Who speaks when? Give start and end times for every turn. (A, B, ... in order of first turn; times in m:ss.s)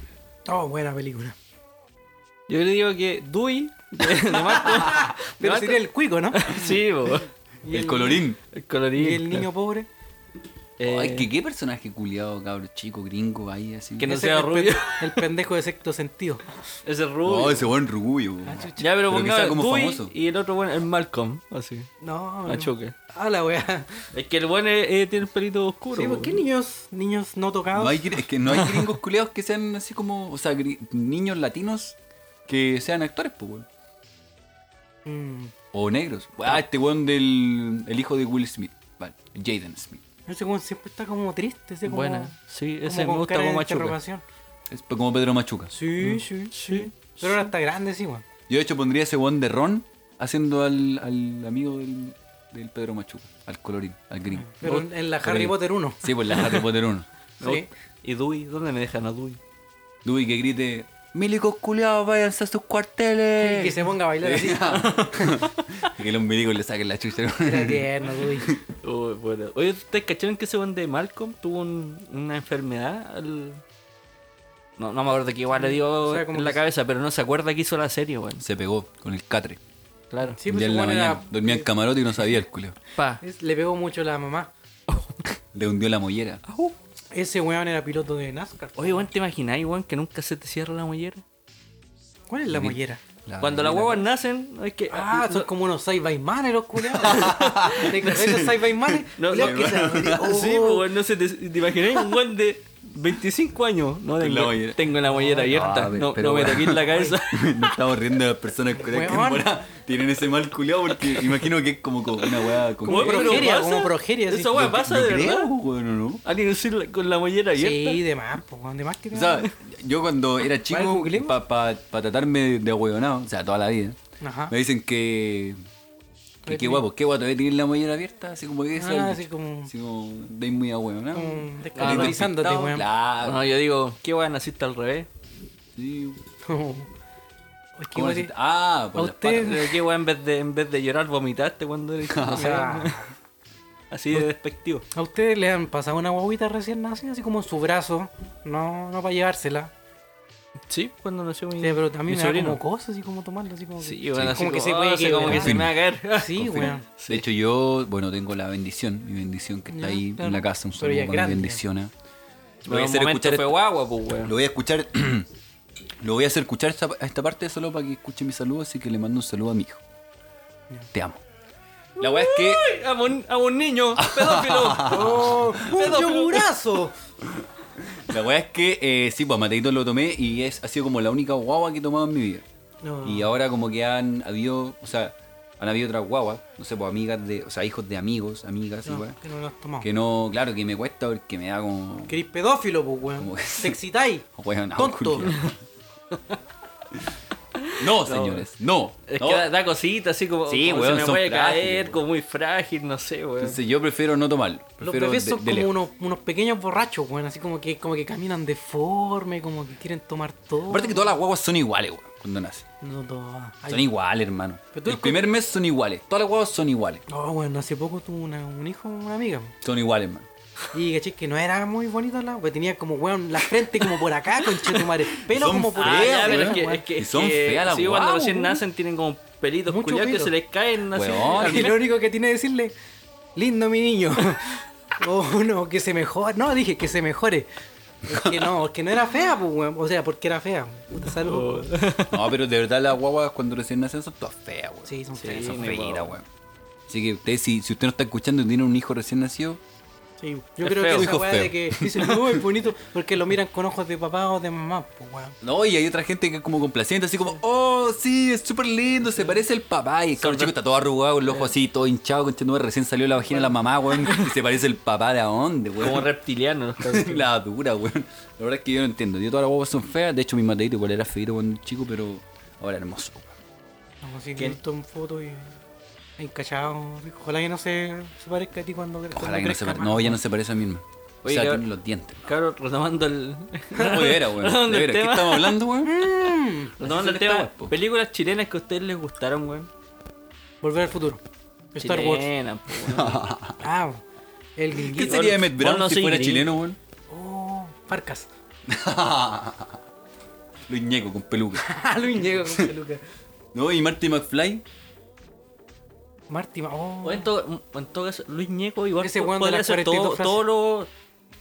0:00.5-0:01.3 A
0:02.5-0:07.3 B
0:04.3-0:06.4 A
0:07.6-0:08.2 A
0:07.7-0:08.4 C
0:08.5-0:09.5 B
0:09.0-0:09.9 A
0:10.8-0:11.3 B
0:10.8-0:14.1 C
0:14.0-0:15.3 B
0:14.0-0:16.4 A
0:16.8-0:17.7 B
0:17.2-0:20.1 C
0:18.4-0:18.8 A
0:18.8-0:21.9 B
0:22.0-0:24.0 A
0:22.4-0:22.9 B
0:24.1-0:26.4 B
0:25.9-0:28.1 A
0:27.7-0:32.0 C
0:32.5-0:33.6 C
0:35.0-0:35.5 A
0:35.7-0:40.0 C
0:40.3-0:44.2 A
0:41.9-0:44.0 B
0:44.7-0:45.7 C
0:45.7-0:48.2 A
0:46.0-0:47.4 B
0:48.5-0:57.1 C
0:54.4-0:56.0 A
0:57.4-0:57.7 A
0:57.4-0:59.4 B
1:00.0-1:08.6 C
1:03.4-1:04.9 A
1:04.7-1:05.9 B
1:07.4-1:08.5 A
1:08.8-1:13.6 B
1:14.8-1:18.4 B
1:15.6-1:16.6 A
1:18.4-1:19.6 C
1:20.1-1:20.4 B
1:20.4-1:21.7 A
1:20.4-1:22.8 C
1:22.9-1:23.2 B
1:23.2-1:24.5 A
1:24.9-1:25.4 B
1:25.5-1:26.4 C
1:26.4-1:26.7 B
1:27.1-1:29.1 A
1:28.8-1:31.2 B
1:32.3-1:33.0 A
1:32.5-1:34.0 C
1:33.4-1:35.5 B
1:34.9-1:40.8 A
1:36.9-1:40.4 C
1:37.1-1:37.5 B
1:39.2-1:47.8 B
1:44.2-1:44.8 C
1:45.0-1:45.6 A
1:45.4-1:53.6 C
1:48.8-1:49.6 A
1:51.0-1:51.4 B
1:52.8-1:54.6 A
1:52.9-1:55.5 B
1:54.5-1:56.2 C
1:56.2-1:58.0 B
1:57.6-1:59.5 A
1:59.1-2:04.0 C
2:00.7-2:01.4 A
2:04.2-2:04.5 A
2:04.5-2:05.6 C
2:06.4-2:06.8 A
2:06.4-2:13.4 C
2:08.8-2:09.7 A
2:11.1-2:12.8 A
2:11.8-2:12.2 B
2:13.2-2:15.1 B
2:15.8-2:16.2 C
2:16.4-2:16.9 A
2:17.8-2:18.3 A
2:17.9-2:19.6 C
2:18.9-2:19.6 A
2:19.3-2:23.0 B
2:22.1-2:22.5 C
2:22.4-2:23.1 A
2:23.9-2:24.8 B
2:24.9-2:29.7 A
2:30.7-2:32.6 B
2:31.6-2:35.6 A
2:33.8-2:37.2 B
2:35.2-2:35.8 C
2:36.1-2:36.8 A
2:36.4-2:41.9 C
2:39.7-2:41.6 A
2:42.6-2:43.6 C
2:42.6-2:44.3 B
2:44.2-2:45.3 C
2:46.0-2:49.8 C
2:50.9-2:51.2 C
2:52.0-2:52.6 C
2:52.0-2:56.5 B
2:54.0-2:55.8 C
2:54.8-2:56.9 A
2:57.2-3:02.4 C
3:02.8-3:03.4 A
3:03.0-3:09.2 C
3:08.8-3:09.9 A
3:09.8-3:12.1 C
3:12.1-3:15.3 A
3:13.2-3:13.8 C
3:14.4-3:15.6 C
3:17.6-3:18.5 B
3:17.8-3:19.5 C
3:19.1-3:23.6 B
3:20.4-3:22.0 C
3:23.4-3:25.7 C
3:24.8-3:31.1 A
3:30.7-3:32.6 C
3:32.8-3:33.9 A
3:33.7-3:37.0 C
3:34.7-3:35.3 A
3:37.1-3:39.5 A
3:39.6-3:40.3 C
3:40.7-3:46.8 A
3:45.3-3:48.6 C
3:45.7-3:51.8 B
3:49.7-3:50.3 A
3:50.9-3:51.8 C
3:51.3-3:52.7 A
3:53.4-3:57.5 A
3:58.0-4:01.7 A
3:58.1-3:58.5 C
4:01.1-4:02.3 B
4:02.1-4:06.2 C
4:04.8-4:05.7 A
4:05.2-4:06.2 B
4:06.9-4:09.6 C
4:10.2-4:15.4 A
4:10.6-4:11.2 B
4:10.9-4:12.4 C
4:15.4-4:26.1 C
4:20.2-4:20.5 B
4:23.2-4:23.6 A
4:25.8-4:27.3 B
4:26.8-4:33.3 C
4:34.0-4:35.5 A
4:36.2-4:40.2 A
4:39.1-4:42.3 C
4:41.2-4:41.6 B
4:42.2-4:45.6 B
4:43.8-4:46.1 C
4:45.8-4:46.8 A
4:46.8-4:49.7 B
4:46.8-4:47.7 C
4:50.6-4:51.2 A
4:51.7-4:52.3 A
4:51.8-4:53.3 B
4:52.8-4:53.6 C
4:53.6-4:54.0 A
4:54.6-4:55.4 A
4:54.8-4:56.8 C
4:55.0-4:56.5 B
4:57.1-4:58.3 A
4:58.7-4:59.8 C
5:00.7-5:01.7 C
5:01.6-5:03.0 A
5:03.5-5:04.6 C
5:06.3-5:07.3 A
5:07.0-5:10.9 B
5:09.0-5:10.4 A